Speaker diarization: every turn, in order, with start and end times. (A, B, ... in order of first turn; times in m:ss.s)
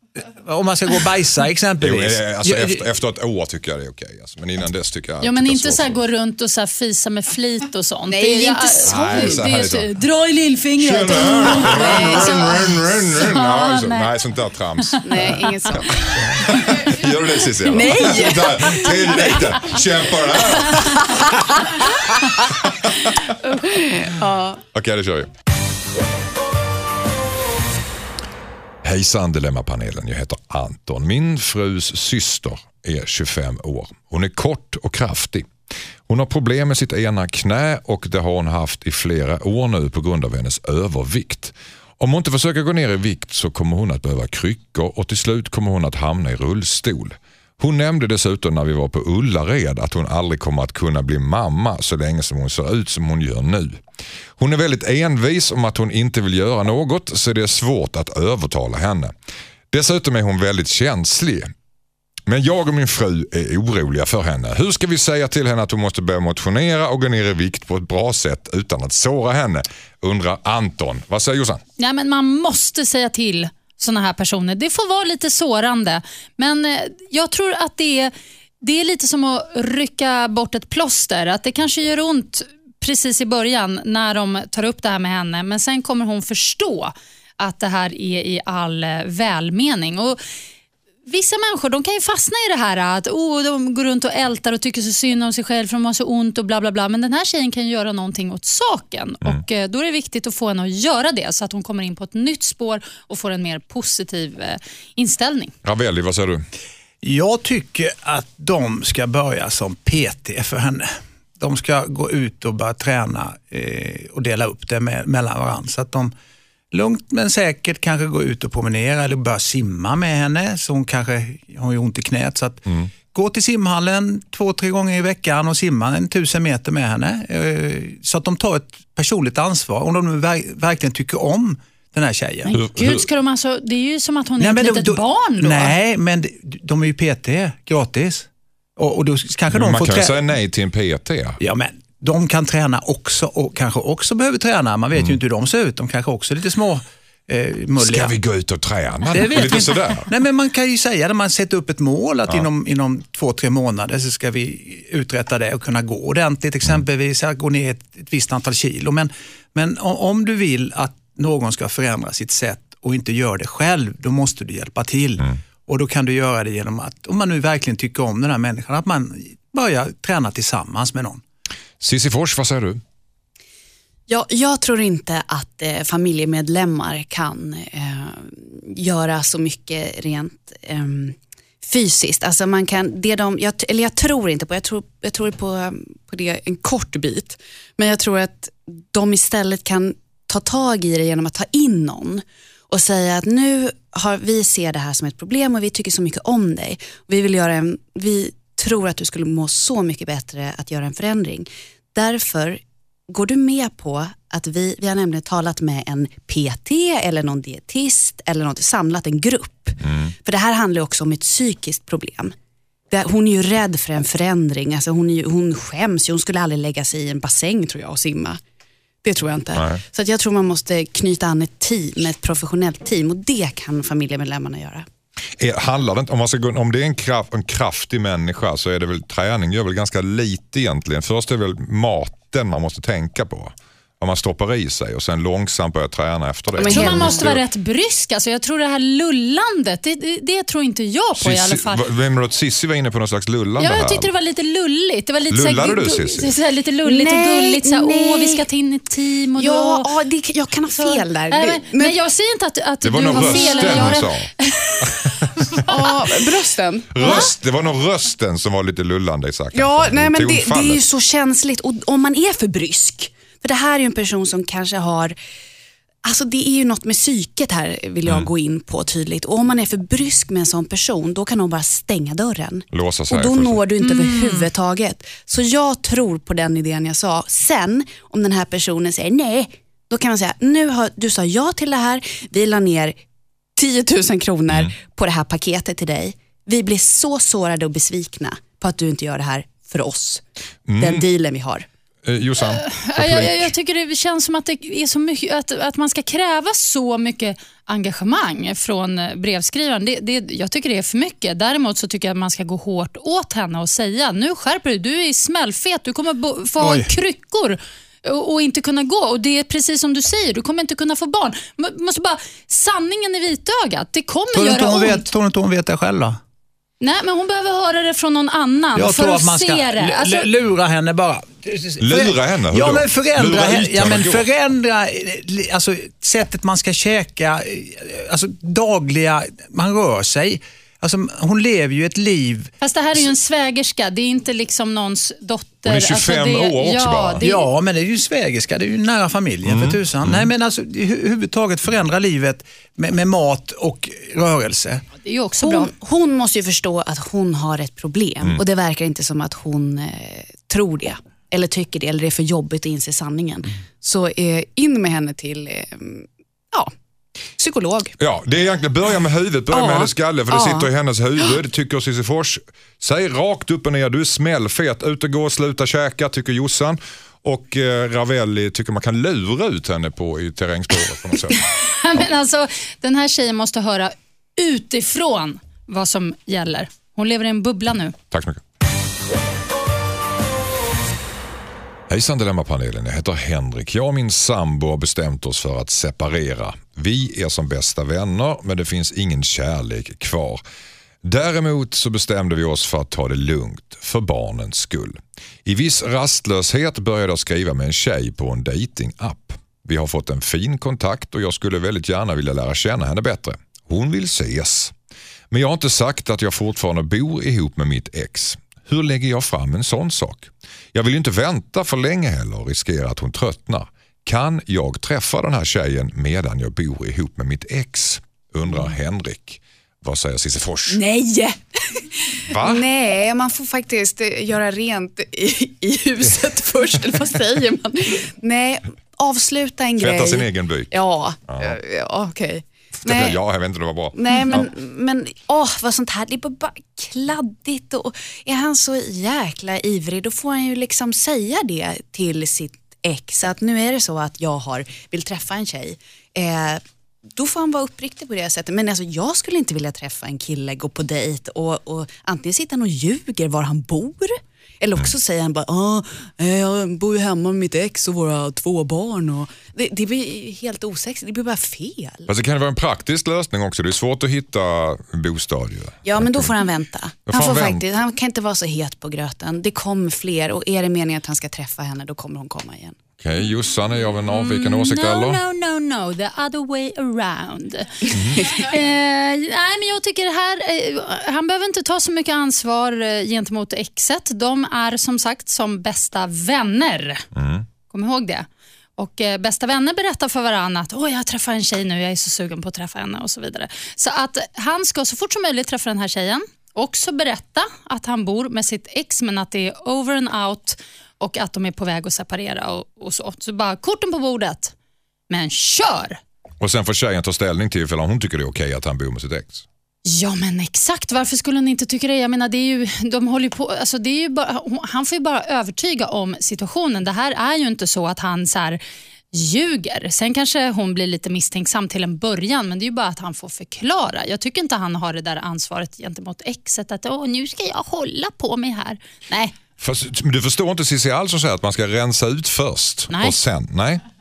0:00.2-0:02.9 A
0:01.8-0:06.0 B
0:05.2-0:14.1 C
0:08.1-0:09.4 D
0:08.8-0:09.9 B
0:10.8-0:15.4 B
0:11.5-0:12.6 D
0:14.8-0:15.7 C
0:15.0-0:16.1 D
0:16.1-0:21.3 B
0:17.6-0:19.4 D
0:20.6-0:21.6 D
0:22.2-0:22.4 D
0:22.4-0:23.2 B
0:23.4-0:24.6 D
0:24.7-0:25.3 B
0:28.8-0:35.5 B
0:36.1-0:53.8 B
0:54.4-0:59.1 B
0:59.7-1:01.5 B
1:02.3-1:11.6 B
1:11.8-1:30.2 C
1:31.1-1:45.5 C
1:45.6-1:46.4 B
1:47.0-1:56.1 A
1:56.7-2:02.6 A
2:02.7-2:02.9 B
2:03.1-2:12.6 A
2:12.5-2:13.1 B
2:12.5-2:15.8 C
2:14.4-2:20.2 A
2:19.5-2:21.4 B
2:21.4-2:28.2 A
2:27.8-2:30.1 B
2:29.1-2:51.2 A
2:51.8-2:52.8 B
2:54.1-3:32.3 D
3:29.8-3:30.1 B
3:32.9-3:38.4 D
3:39.0-3:44.9 D
3:39.6-3:39.8 B
3:45.4-3:57.4 B
3:56.6-3:57.3 D
3:56.6-4:01.8 C
4:01.1-4:04.1 B
4:03.6-4:09.9 C
4:05.3-4:06.3 B
4:06.8-4:08.4 D
4:09.4-4:12.0 D
4:10.7-4:14.8 C
4:12.8-4:14.3 B
4:13.1-4:13.9 D
4:14.8-4:15.8 B
4:15.6-4:17.3 D
4:16.9-4:20.8 B
4:17.0-4:17.3 C
4:19.5-4:25.2 D
4:26.0-4:43.0 D
4:32.7-4:33.6 B
4:33.8-4:34.5 C
4:43.6-4:50.2 D
4:44.5-4:44.7 B
4:50.7-4:51.1 B
4:50.8-4:51.7 D
4:52.0-4:53.5 B
4:52.4-5:15.1 C
5:06.6-5:06.9 A
5:14.3-5:16.2 A
5:16.8-5:20.3 C
5:18.7-5:32.5 A
5:21.8-5:24.3 B
5:32.6-5:37.4 C
5:35.7-5:37.2 B
5:37.2-5:44.8 A
5:39.4-5:40.3 B
5:45.0-5:45.7 C
5:45.4-5:56.7 D
5:57.4-5:58.0 D
5:58.0-6:11.4 B
5:59.5-6:01.4 D
6:11.4-6:18.0 C
6:18.1-6:18.4 B
6:21.9-6:30.4 B
6:31.0-6:44.7 B
6:45.3-7:00.8 B
7:00.7-7:13.2 D
7:02.3-7:02.7 B
7:09.8-7:11.6 B
7:12.8-7:14.5 B
7:14.0-7:26.6 D
7:27.1-7:42.1 D
7:42.1-7:46.3 B
7:45.8-7:52.8 D
7:47.1-7:47.6 B
7:53.0-7:55.2 B
7:54.0-8:07.0 C
7:57.9-7:58.2 B
8:07.1-8:07.5 B
8:07.7-8:24.5 C
8:25.1-8:26.0 C
8:26.4-8:29.4 B
8:29.9-8:38.6 C
8:39.1-8:49.3 C
8:49.6-8:53.8 B
8:52.9-8:53.2 C